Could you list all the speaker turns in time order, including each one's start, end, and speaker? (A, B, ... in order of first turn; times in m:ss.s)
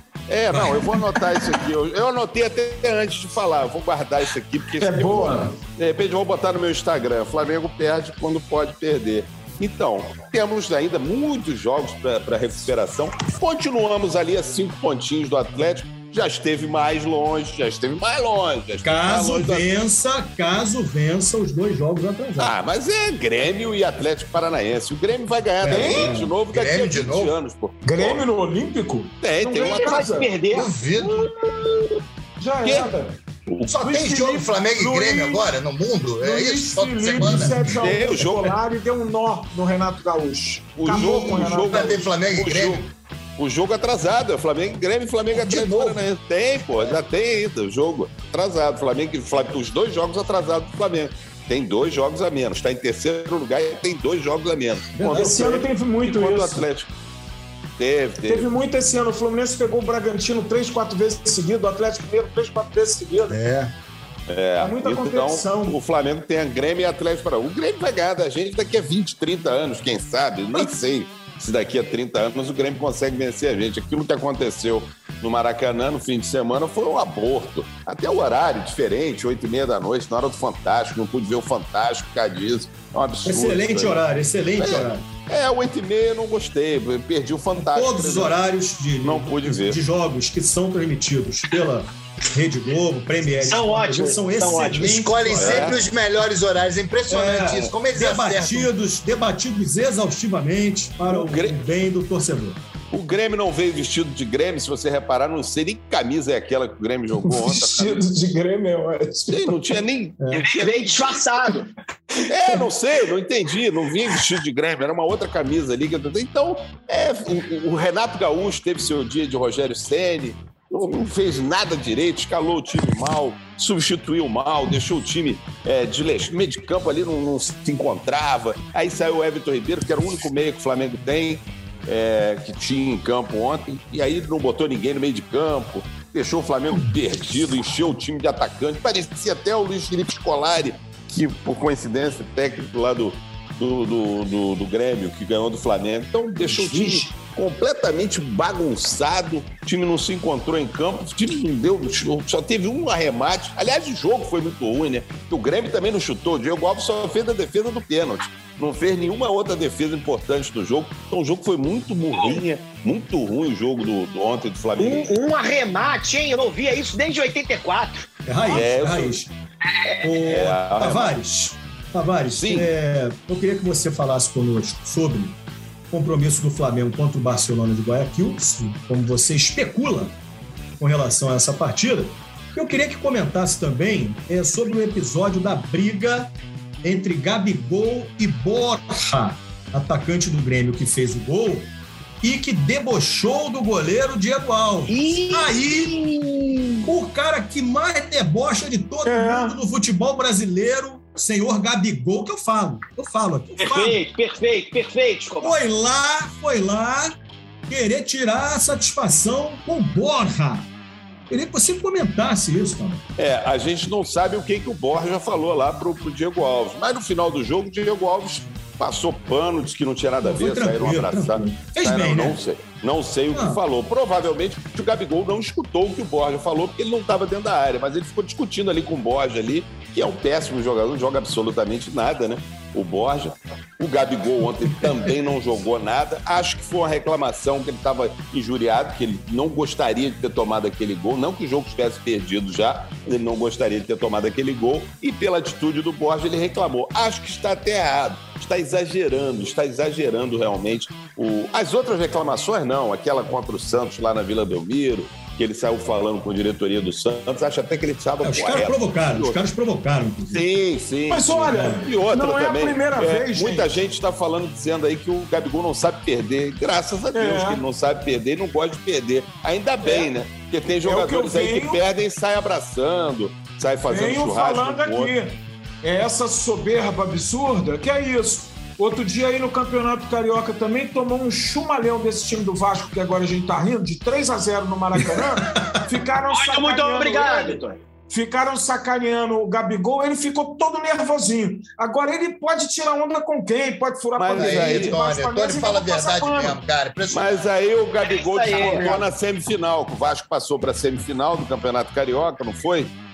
0:00.3-0:19.7 A
0:00.5-0:01.0 B
0:04.8-0:05.6 C
0:18.8-0:22.5 B
0:22.4-0:28.2 A
0:25.6-0:26.3 B
0:25.7-0:26.1 C
0:26.5-0:27.3 D
0:27.8-0:30.3 C
0:29.2-0:30.1 A
0:29.6-0:30.7 E
0:30.5-0:31.3 D
0:32.4-0:33.2 C
0:32.6-0:32.9 A
0:33.5-0:33.8 A
0:33.7-0:37.7 D
0:33.7-0:35.5 C
0:36.2-0:42.1 C
0:37.2-0:37.6 B
0:37.8-0:38.6 A
0:40.8-0:42.9 A
0:40.9-0:41.6 B
0:41.7-0:42.9 D
0:43.4-0:56.9 A
0:45.3-0:46.0 B
0:55.0-0:55.5 B
0:55.1-0:56.7 C
0:57.8-0:58.5 A
0:58.2-1:03.4 C
1:03.2-1:03.7 D
1:04.3-1:24.0 A
1:04.6-1:05.4 C
1:05.2-1:05.8 B
1:23.2-1:25.0 B
1:24.6-1:28.4 A
1:27.6-1:35.8 B
1:29.0-1:29.8 A
1:33.4-1:34.9 E
1:34.8-1:38.7 D
1:35.3-1:35.8 A
1:37.1-1:42.6 B
1:41.1-1:41.7 A
1:42.9-1:48.1 A
1:47.3-1:49.8 C
1:49.3-1:51.2 A
1:50.4-1:51.7 E
1:52.3-2:45.1 A
2:26.4-2:27.1 B
2:42.1-2:42.4 E
2:44.8-2:48.1 E
2:48.3-2:49.3 B
2:48.5-2:49.2 A
2:49.6-2:50.1 E
2:50.0-2:55.4 B
2:50.2-2:51.1 A
2:52.3-2:52.7 A
2:55.9-3:00.1 B
3:00.8-3:06.3 B
3:06.8-3:11.7 B
3:12.2-3:15.9 B
3:14.9-3:16.9 E
3:16.8-3:24.0 B
3:19.0-3:19.6 C
3:23.6-3:25.6 E
3:25.4-3:27.1 B
3:27.7-3:30.7 B
3:31.3-3:33.0 B
3:33.2-4:19.4 A
3:40.2-3:42.4 B
3:43.3-3:43.6 B
3:54.7-3:55.1 B
4:18.2-4:20.4 B
4:20.3-4:35.2 A
4:21.1-4:23.8 C
4:21.4-4:21.9 B
4:27.1-4:27.6 C
4:30.8-4:31.8 C
4:33.9-4:56.6 C
4:46.3-4:47.8 E
4:54.2-4:55.0 A
4:54.4-4:57.4 D
4:57.1-5:02.9 A
4:58.0-4:58.9 E
4:58.5-4:59.1 C